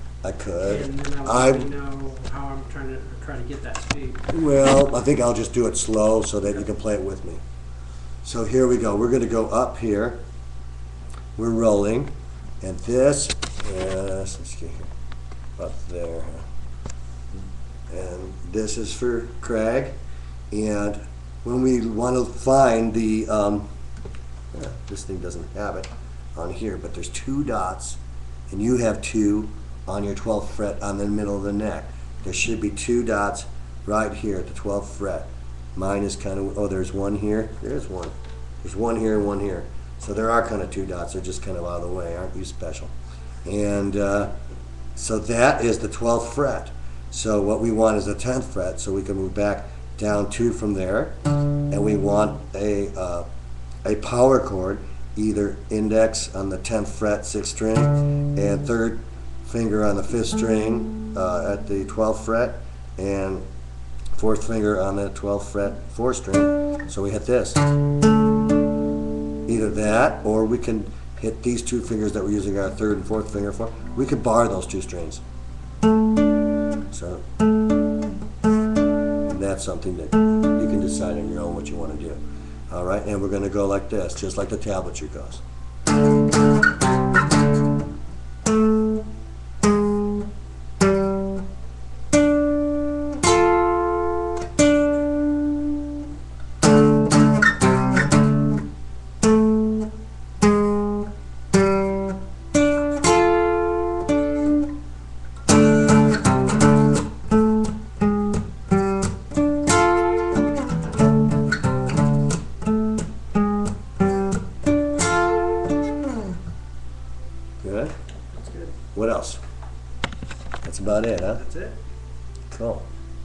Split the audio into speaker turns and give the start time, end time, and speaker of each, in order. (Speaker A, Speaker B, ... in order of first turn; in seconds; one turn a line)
Speaker A: 0.2-1.7
Speaker B: 0.7-4.2
Speaker A: 4.3-7.4
Speaker A: 8.2-10.2
Speaker A: 11.4-14.9
Speaker A: 15.6-16.5
Speaker A: 17.9-20.0
Speaker A: 20.5-23.7
Speaker A: 24.5-42.9
Speaker A: 43.5-44.3
Speaker A: 45.0-51.2
Speaker A: 51.7-53.3
Speaker A: 53.8-63.4
Speaker A: 64.1-67.6
Speaker A: 69.5-75.2
Speaker A: 76.9-77.2
Speaker A: 79.3-82.2
Speaker A: 82.7-85.4
Speaker A: 117.6-117.9
Speaker B: 118.3-118.7
Speaker A: 118.9-119.4
Speaker A: 120.6-121.4
Speaker B: 121.3-121.8
Speaker A: 122.5-122.9